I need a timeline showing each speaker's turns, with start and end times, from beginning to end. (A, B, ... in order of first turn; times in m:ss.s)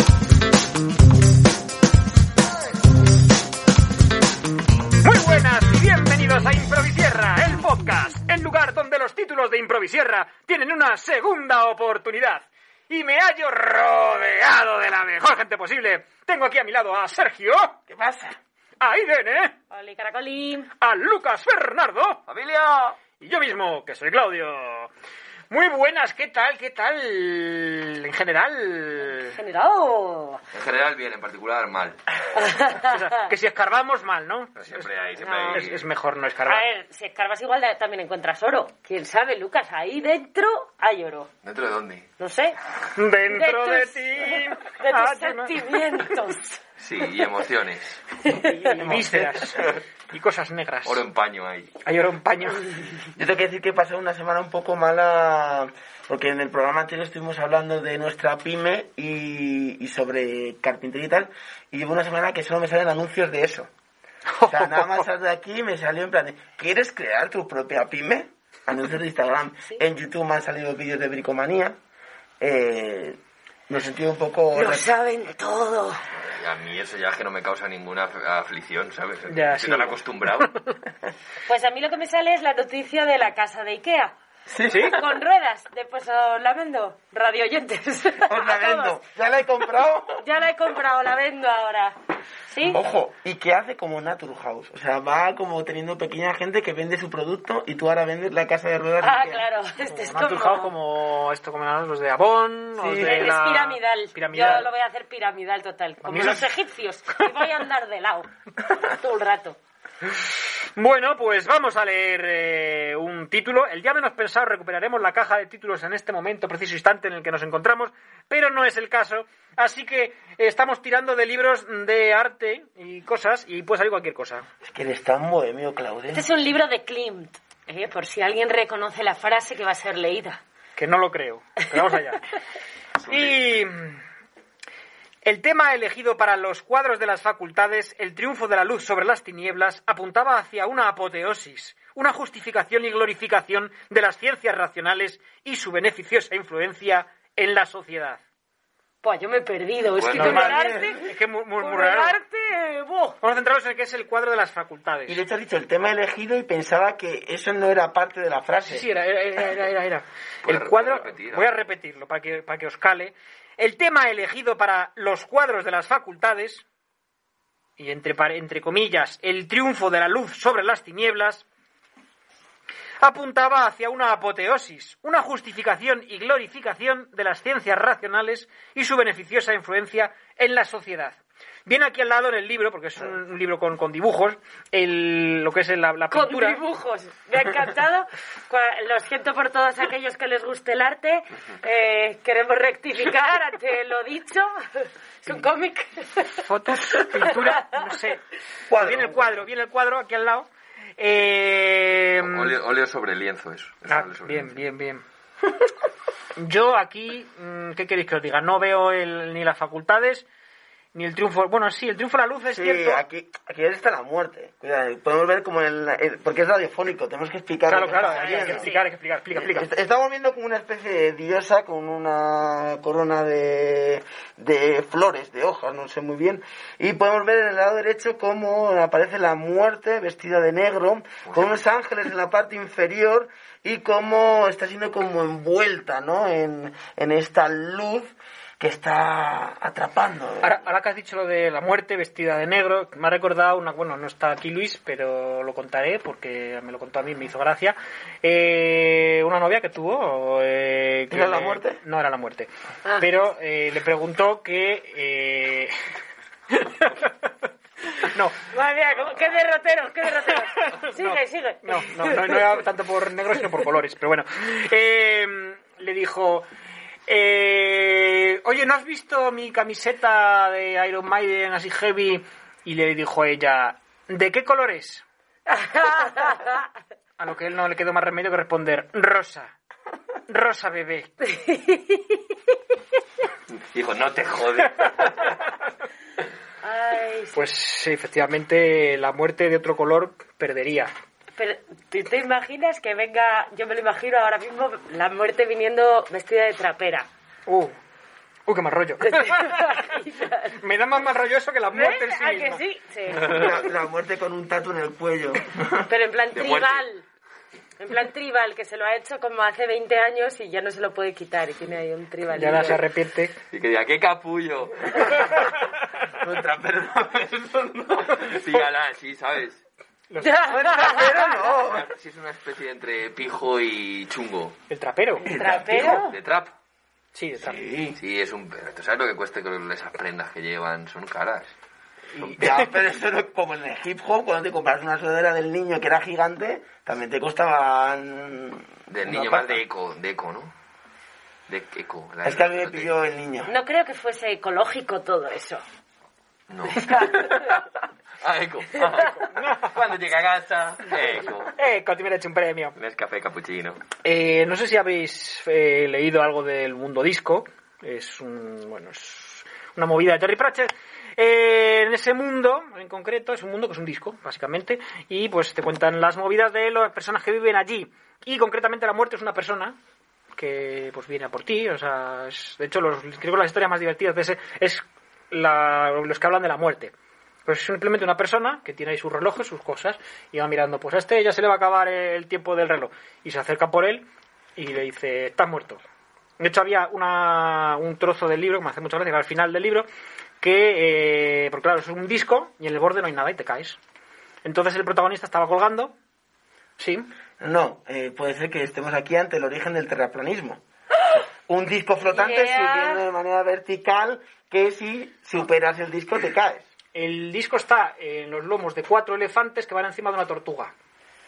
0:05.0-0:17.8 A
0:17.9-0:18.4 B
0:18.8-0:19.5 A
0:19.7-0:20.7 C
0:20.8-0:22.2 A
0:22.3-0:23.0 D
0:23.2-0:24.9 A
0:25.5-0:29.4 A
0:29.0-0:30.4 C
0:30.5-0:32.0 D
0:32.4-0:33.1 C
0:32.8-0:34.9 A
0:34.6-0:35.9 D
0:35.2-0:35.7 C
0:35.5-0:36.7 A
0:36.5-0:41.3 C
0:41.4-0:42.1 D
0:42.2-0:42.6 C
0:43.0-0:45.8 A
0:43.2-0:46.6 C
0:46.8-0:48.2 D
0:48.3-0:49.1 C
0:48.5-0:51.0 A
0:48.8-0:49.5 B
0:50.8-0:51.7 D
0:51.8-0:52.7 A
0:53.1-1:03.7 B
1:04.3-1:05.0 A
1:04.5-1:11.8 B
1:12.4-1:13.2 B
1:13.7-1:14.9 B
1:14.6-1:16.0 C
1:16.1-1:20.5 D
1:19.3-1:20.5 A
1:21.5-1:24.1 C
1:24.5-1:24.9 B
1:24.7-1:29.0 C
1:24.7-1:25.0 A
1:28.3-1:30.2 B
1:30.2-1:32.0 C
1:32.5-1:32.8 C
1:32.6-1:39.4 B
1:39.0-1:40.7 C
1:39.9-1:44.7 A
1:42.8-1:43.2 B
1:43.0-1:49.6 C
1:46.0-1:46.4 A
1:50.7-2:04.5 A
2:04.6-2:06.3 B
2:06.1-2:10.4 C
2:10.8-2:12.3 A
2:13.0-2:13.4 D
2:13.1-2:14.0 A
2:15.2-2:28.2 A
2:29.0-2:33.2 C
2:30.0-2:30.5 D
2:30.2-2:32.2 A
2:30.3-2:30.9 B
2:33.2-2:35.2 A
2:35.1-2:38.9 B
2:38.7-2:46.6 A
2:40.4-2:41.5 D
2:47.8-2:51.5 A
2:53.0-3:06.6 A
3:06.1-3:16.4 C
3:16.4-3:22.5 A
3:16.9-3:17.6 C
3:18.7-3:19.4 B
3:22.2-3:24.6 D
3:23.9-3:25.0 A
3:26.4-3:30.3 A
3:30.9-3:33.0 A
3:32.5-3:38.7 B
3:37.7-3:39.7 A
3:38.1-3:38.8 C
3:39.3-4:00.6 B
3:51.3-3:51.5 D
4:00.4-4:15.7 A
4:11.1-4:11.8 B
4:16.5-4:17.1 A
4:18.0-4:18.4 A
4:18.4-4:22.5 C
4:21.0-4:26.5 A
4:27.1-4:35.0 A
4:35.5-4:36.6 C
4:37.2-4:39.5 A
4:40.3-4:41.3 A
4:41.3-4:42.4 C
4:43.5-4:45.4 D
4:46.6-4:47.5 C
4:47.3-4:50.9 A
4:51.3-4:57.1 C
4:57.5-4:57.8 A
4:58.5-4:59.8 A
4:59.0-5:00.6 C
5:00.6-5:02.6 A
5:01.7-5:03.4 C
5:03.1-5:05.9 B
5:05.9-5:07.0 C
5:06.3-5:06.8 D
5:07.8-5:12.8 C
5:12.3-5:13.4 A
5:13.5-5:15.4 D
5:16.2-5:18.3 B
5:18.0-5:19.6 D
5:20.1-5:20.7 A
5:20.2-5:21.3 C
5:20.5-5:21.9 B
5:21.4-5:24.6 D
5:24.7-5:25.3 A
5:25.2-5:26.2 C
5:25.3-5:26.0 B
5:25.4-5:26.5 D
5:27.1-5:27.6 A
5:27.4-5:28.0 B
5:28.0-5:31.5 D
5:32.1-5:32.7 A
5:32.2-5:39.6 B
5:38.9-5:40.5 D
5:41.5-5:42.9 D
5:42.2-5:43.5 B
5:43.5-5:45.6 C
5:46.5-5:47.6 D
5:48.2-5:51.5 D
5:51.6-5:52.8 A
5:52.8-5:53.8 D
5:54.0-6:09.8 A
6:10.4-6:16.9 A
6:17.4-6:24.0 A
6:24.6-6:25.8 A
6:26.4-6:29.9 A
6:30.4-6:33.8 A
6:34.4-6:36.0 A
6:36.8-6:37.1 A
6:37.4-6:40.6 B
6:41.5-6:46.7 B
6:42.0-6:43.0 C
6:46.9-6:50.7 A